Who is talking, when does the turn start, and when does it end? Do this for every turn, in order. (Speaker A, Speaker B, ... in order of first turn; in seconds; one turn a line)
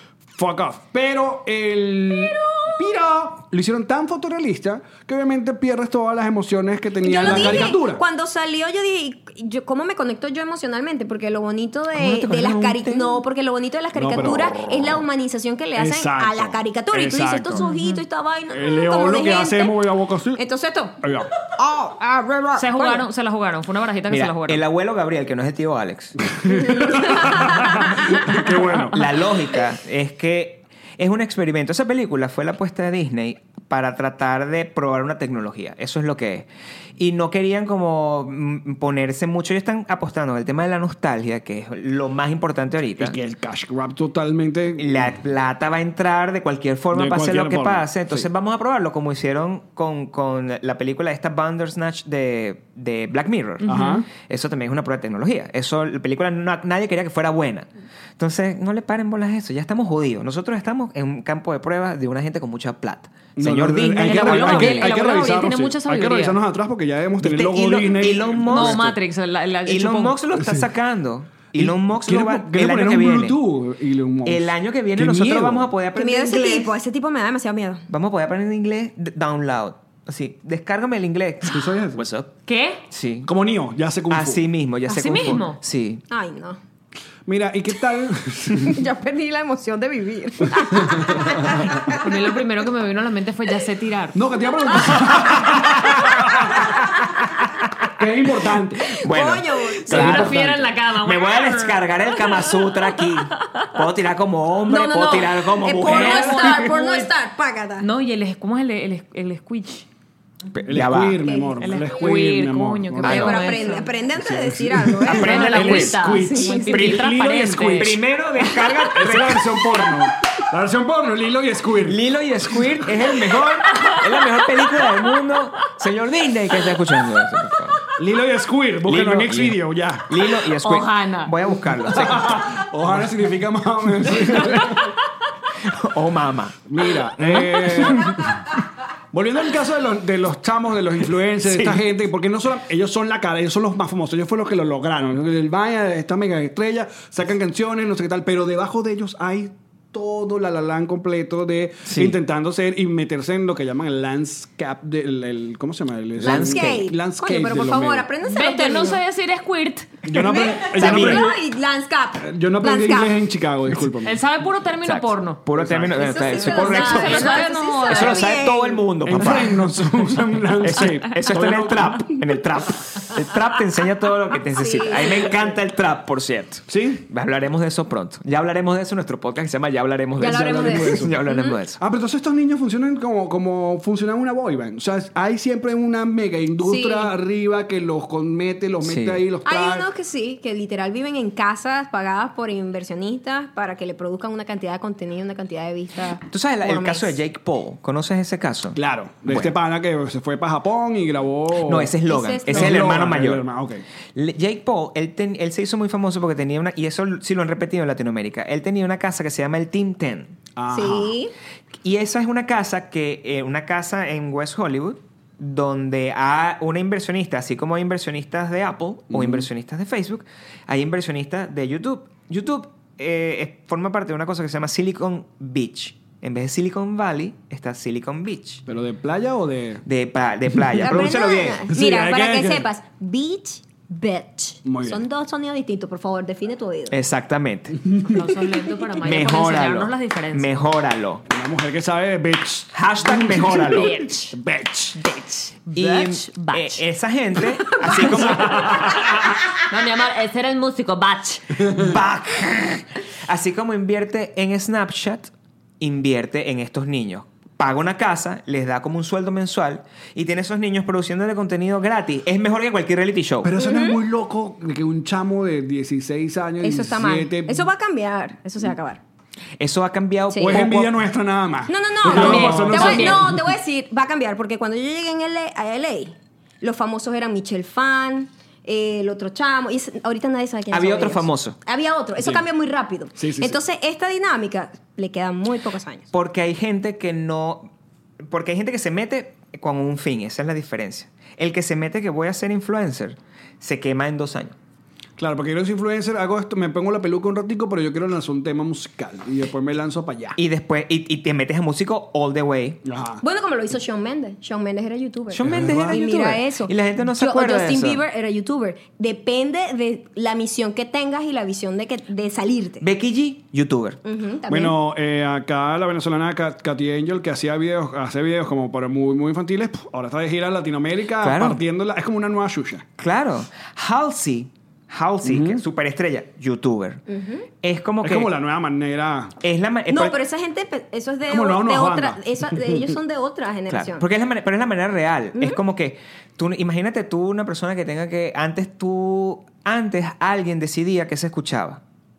Speaker A: 0.3-8.0
Speaker B: 2.4-2.7
Speaker B: 7.0-19.8
Speaker C: 7.2-7.7
Speaker C: 11.9-13.2
Speaker A: 13.9-15.0
Speaker A: 15.8-17.6
Speaker D: 17.6-18.0
Speaker A: 18.5-20.4
Speaker B: 20.4-23.1
Speaker A: 21.0-21.3
Speaker D: 22.6-24.6
Speaker C: 24.1-26.2
Speaker A: 26.3-29.0
Speaker B: 26.5-28.1
Speaker C: 28.0-43.2
Speaker A: 43.0-45.1
Speaker C: 44.8-65.0
Speaker A: 46.9-48.3
Speaker D: 53.6-54.0
Speaker A: 53.6-54.1
Speaker A: 63.4-69.0
Speaker D: 64.0-66.4
Speaker C: 67.2-68.9
Speaker D: 68.5-70.2
Speaker C: 69.7-73.4
Speaker A: 70.4-70.7
Speaker A: 71.6-75.7
Speaker C: 74.2-76.8
Speaker B: 76.0-77.9
Speaker C: 77.9-82.4
Speaker A: 81.5-82.0
Speaker D: 82.5-82.8
Speaker C: 82.9-83.3
Speaker A: 83.3-84.5
Speaker C: 84.1-86.0
Speaker D: 84.9-85.6
Speaker B: 86.1-86.6
Speaker A: 87.3-88.8
Speaker B: 88.6-92.0
Speaker A: 90.6-91.8
Speaker D: 92.0-94.2
Speaker A: 94.1-96.8
Speaker C: 96.0-97.8
Speaker A: 98.0-99.0
Speaker C: 99.0-106.8
Speaker B: 99.0-100.2
Speaker D: 99.9-102.7
Speaker A: 99.9-100.7
Speaker B: 104.7-107.9
Speaker D: 105.8-107.1
Speaker D: 107.8-109.9
Speaker C: 110.5-111.3
Speaker A: 110.7-113.5
Speaker B: 111.2-111.6
Speaker D: 111.6-113.9
Speaker C: 113.0-113.4
Speaker B: 113.1-116.9
Speaker A: 114.2-118.0
Speaker D: 115.1-118.0
Speaker C: 115.1-116.0
Speaker C: 116.7-117.1
Speaker C: 117.7-119.6
Speaker A: 118.9-122.0
Speaker C: 121.8-127.8
Speaker A: 128.0-130.2
Speaker C: 128.9-133.1
Speaker D: 130.6-131.3
Speaker A: 131.9-134.9
Speaker C: 134.2-134.7
Speaker C: 135.6-138.3
Speaker A: 136.7-138.5
Speaker A: 139.1-158.1
Speaker C: 141.4-141.8
Speaker C: 151.8-152.2
Speaker C: 156.2-156.9
Speaker B: 156.2-159.0
Speaker D: 158.2-160.0
Speaker A: 160.0-161.4
Speaker B: 160.1-163.2
Speaker C: 160.7-161.3
Speaker A: 162.2-164.2
Speaker D: 164.0-165.4
Speaker C: 164.8-169.7
Speaker A: 165.6-166.2
Speaker B: 166.0-168.8
Speaker D: 166.4-168.4
Speaker A: 169.0-172.2
Speaker C: 170.6-181.8
Speaker B: 174.5-175.6
Speaker A: 176.7-177.1
Speaker B: 180.2-181.6
Speaker A: 180.2-181.2
Speaker A: 181.8-189.9
Speaker B: 186.6-187.1
Speaker C: 188.8-189.2
Speaker B: 189.4-197.1
Speaker C: 196.3-199.5
Speaker A: 198.8-202.0
Speaker C: 201.6-203.4
Speaker B: 202.1-202.9
Speaker A: 202.5-203.8
Speaker C: 204.2-210.4
Speaker A: 210.6-211.2
Speaker B: 210.7-211.3
Speaker C: 211.8-228.6
Speaker A: 219.1-219.5
Speaker A: 228.7-229.8
Speaker C: 229.9-231.7
Speaker A: 230.5-230.8
Speaker B: 230.8-237.0
Speaker A: 231.7-232.7
Speaker A: 234.7-235.0
Speaker C: 236.9-237.9
Speaker A: 237.9-238.2
Speaker D: 238.1-240.6
Speaker C: 239.0-241.2
Speaker A: 241.3-245.0
Speaker C: 242.7-244.1
Speaker D: 243.6-244.3
Speaker D: 245.0-246.8
Speaker C: 245.7-249.0
Speaker D: 247.8-251.7
Speaker A: 248.4-249.0
Speaker C: 251.7-263.5
Speaker A: 263.4-267.7
Speaker B: 263.6-264.0
Speaker B: 266.6-269.0
Speaker C: 269.6-271.0
Speaker B: 270.3-270.6
Speaker A: 270.4-273.4
Speaker B: 271.7-286.1
Speaker D: 272.1-273.3
Speaker C: 272.3-272.7
Speaker C: 280.7-281.6
Speaker A: 283.2-283.6
Speaker C: 286.1-294.6
Speaker A: 295.2-300.4
Speaker C: 300.4-302.8
Speaker A: 302.9-303.2
Speaker B: 303.2-312.9
Speaker C: 305.3-308.0
Speaker A: 305.4-306.0
Speaker C: 312.8-314.0
Speaker B: 314.0-314.8
Speaker A: 314.5-322.9
Speaker C: 321.2-321.6
Speaker C: 323.0-327.0
Speaker A: 325.2-325.6
Speaker B: 327.1-327.5
Speaker C: 327.6-328.3
Speaker A: 328.0-329.4
Speaker C: 329.4-330.2
Speaker B: 329.9-334.1
Speaker A: 331.3-332.9
Speaker C: 333.7-341.8